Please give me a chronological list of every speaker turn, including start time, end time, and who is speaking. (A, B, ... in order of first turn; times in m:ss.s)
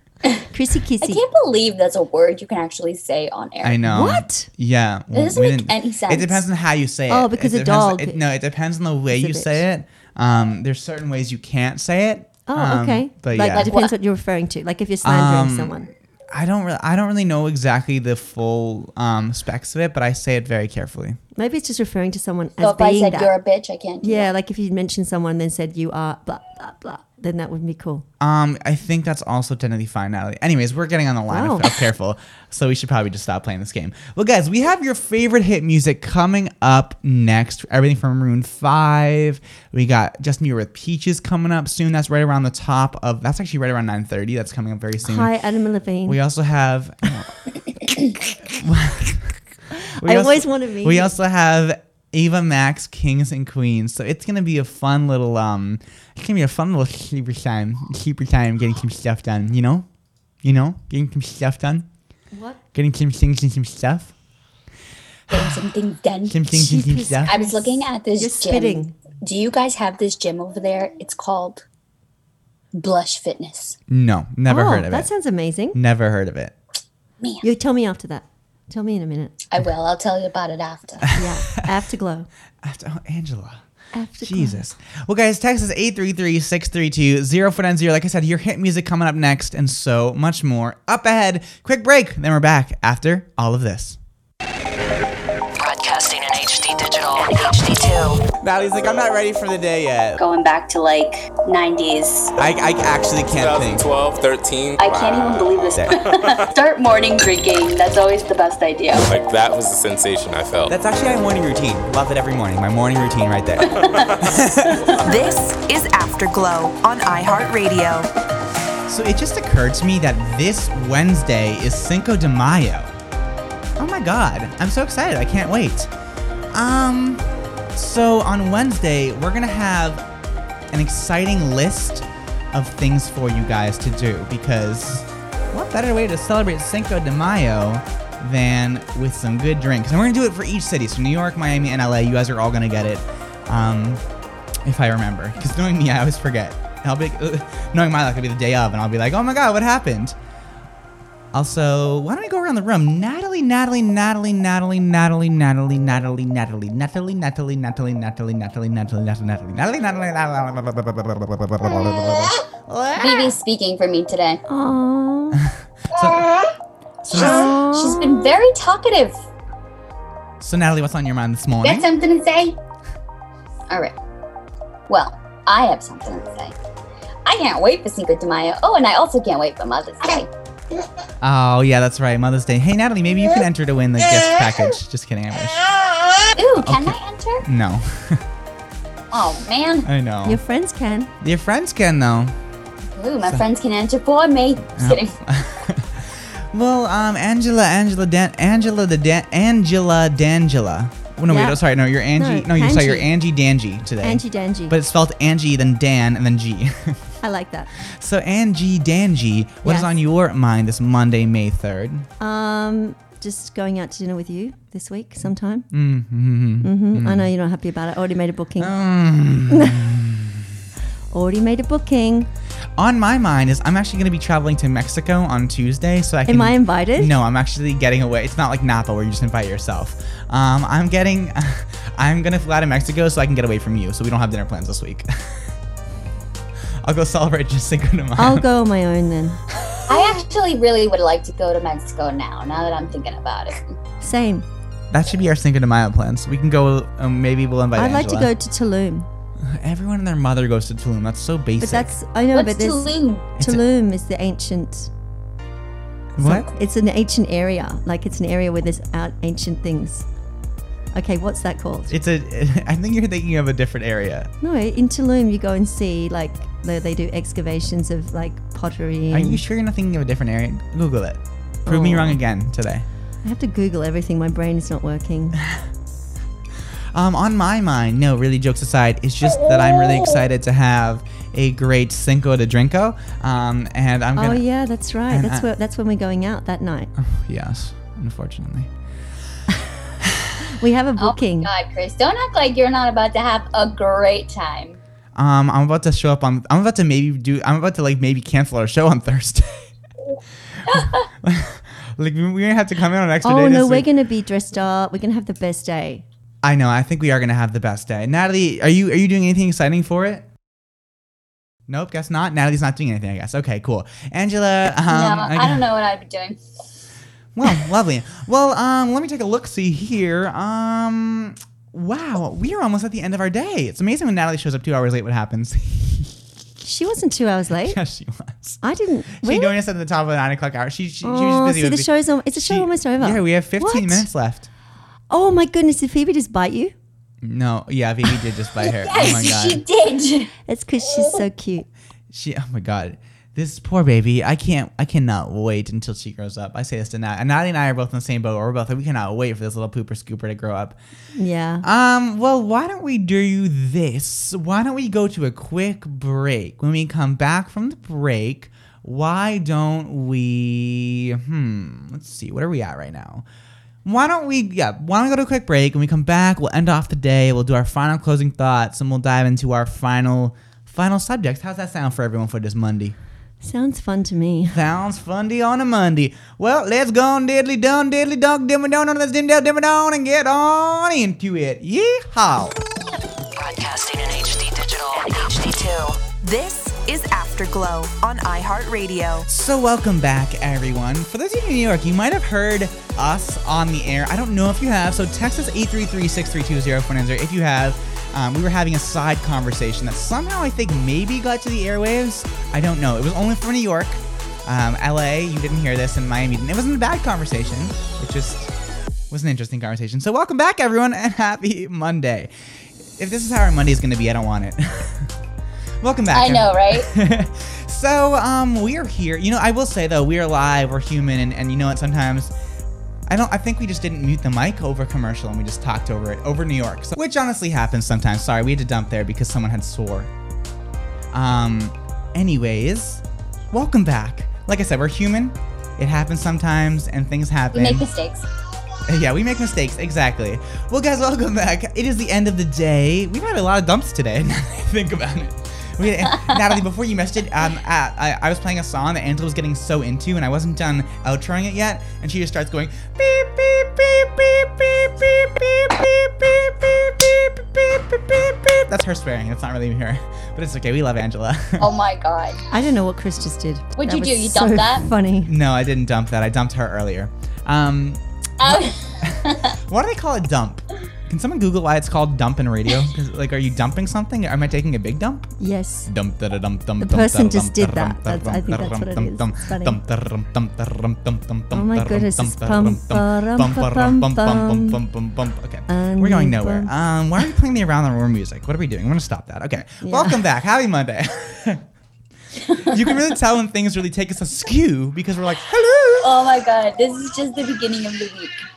0:00.5-0:01.2 A
0:01.0-0:03.8 B
0:03.6-0:13.7 C
0:03.8-0:04.5 A
0:05.1-0:06.4 B
0:07.1-0:08.2 A
0:09.1-0:09.6 A
0:12.5-0:15.9 A
0:13.4-0:13.9 B
0:15.0-0:15.8 C
0:16.3-0:21.2 C
0:21.4-0:23.3 A
0:22.6-0:24.3 B
0:24.0-0:28.0 A
0:28.2-0:45.3 C
0:31.3-0:31.7 A
0:45.0-0:46.2 A
0:46.1-0:47.3 C
0:48.5-0:49.4 C
0:49.8-0:51.1 A
0:50.0-0:59.9 C
1:00.4-1:01.9 C
1:02.3-1:02.6 A
1:02.7-1:04.1 C
1:05.3-1:06.4 B
1:06.3-1:07.3 C
1:06.5-1:08.9 A
1:07.3-1:11.6 B
1:12.7-1:13.8 B
1:13.9-1:15.1 C
1:14.5-1:15.8 A
1:15.7-1:16.6 C
1:17.4-1:19.4 A
1:19.5-1:21.1 B
1:21.1-1:22.3 A
1:22.6-1:23.6 C
1:23.9-1:24.6 A
1:24.2-1:34.0 C
1:35.6-1:38.2 D
1:38.4-1:40.2 C
1:40.2-1:42.3 B
1:42.4-1:43.9 C
1:43.3-1:46.0 E
1:44.8-1:49.1 B
1:49.0-1:50.7 E
1:50.7-1:55.0 C
1:53.7-1:54.2 B
1:54.7-1:55.0 B
1:55.0-1:58.1 D
1:58.9-2:02.9 C
2:03.8-2:05.9 C
2:06.5-2:10.1 C
2:10.7-2:24.0 C
2:24.6-2:30.2 C
2:31.3-2:43.4 C
2:43.0-2:44.4 B
2:44.5-2:45.4 A
2:45.4-2:46.3 C
2:47.1-2:47.5 C
2:47.1-2:48.2 A
2:47.1-2:49.2 B
2:50.4-2:51.9 C
2:51.6-2:52.6 B
2:53.7-2:54.0 B
2:54.9-2:56.6 B
2:57.3-3:00.3 B
3:01.2-3:05.6 C
3:06.4-3:07.4 B
3:06.6-3:08.2 C
3:09.1-3:09.9 B
3:09.8-3:10.4 C
3:10.3-3:11.1 A
3:11.2-3:12.3 C
3:13.0-3:15.2 B
3:14.8-3:27.0 C
3:21.3-3:21.6 A
3:22.2-3:23.1 A
3:24.0-3:24.8 A
3:27.2-3:27.7 A
3:27.8-3:32.1 C
3:29.6-3:29.9 A
3:32.2-3:35.7 A
3:35.7-3:37.3 C
3:36.6-3:38.8 A
3:38.6-3:40.5 C
3:39.5-3:39.8 A
3:41.1-3:42.3 A
3:42.8-3:55.5 C
3:46.3-3:47.2 A
3:56.8-3:58.4 C
3:58.2-3:59.4 A
3:59.6-4:00.2 C
3:59.9-4:03.7 B
4:04.0-4:04.4 A
4:04.9-4:08.3 C
4:07.8-4:09.1 A
4:09.4-4:12.0 C
4:11.6-4:14.9 A
4:12.3-4:13.3 B
4:16.2-4:16.5 C
4:16.2-4:20.1 A
4:20.9-4:21.9 A
4:21.9-4:24.3 C
4:24.4-4:29.4 A
4:29.1-4:32.9 C
4:31.6-4:32.2 A
4:33.2-4:35.4 A
4:36.9-4:44.4 C
4:44.2-4:46.9 A
4:45.1-4:45.5 C
4:47.0-4:48.7 C
4:50.0-4:50.4 C
4:50.5-4:51.5 A
4:51.0-4:54.8 B
4:55.2-4:59.7 C
5:00.7-5:01.1 B
5:00.7-5:03.9 C
5:03.2-5:06.0 A
5:06.4-5:10.3 C
5:11.7-5:15.6 C
5:14.9-5:16.4 B
5:17.4-5:26.2 C
5:26.6-5:27.8 A
5:27.6-5:28.6 C
5:28.6-5:29.5 A
5:29.2-5:34.5 C
5:31.0-5:34.1 A
5:35.1-5:36.7 A
5:37.2-5:39.6 C
5:38.8-5:40.3 B
5:40.5-5:41.7 A
5:42.1-5:50.8 C
5:51.2-5:51.6 A
5:51.6-6:03.2 C
6:03.8-6:13.0 C
6:13.4-6:14.6 A
6:14.5-6:22.6 C
6:23.4-6:29.3 D
6:29.3-6:48.5 C
6:49.1-6:52.3 C
6:53.0-6:55.1 C
6:55.8-7:02.3 C
6:56.1-6:56.9 B
7:03.1-7:10.1 C
7:11.1-7:17.9 C
7:17.5-7:18.3 B
7:18.9-7:41.7 C
7:26.0-7:26.5 B
7:41.6-7:42.4 B
7:42.5-7:45.3 A
7:43.8-7:44.9 B
7:45.2-7:55.3 C
7:48.4-7:49.5 B
7:55.4-7:55.9 A
7:55.9-8:11.6 C
7:56.8-7:59.8 A
8:01.5-8:04.8 A
8:05.7-8:06.7 A
8:09.8-8:10.2 A
8:12.5-8:12.9 B
8:12.6-8:16.1 C
8:16.0-8:18.4 B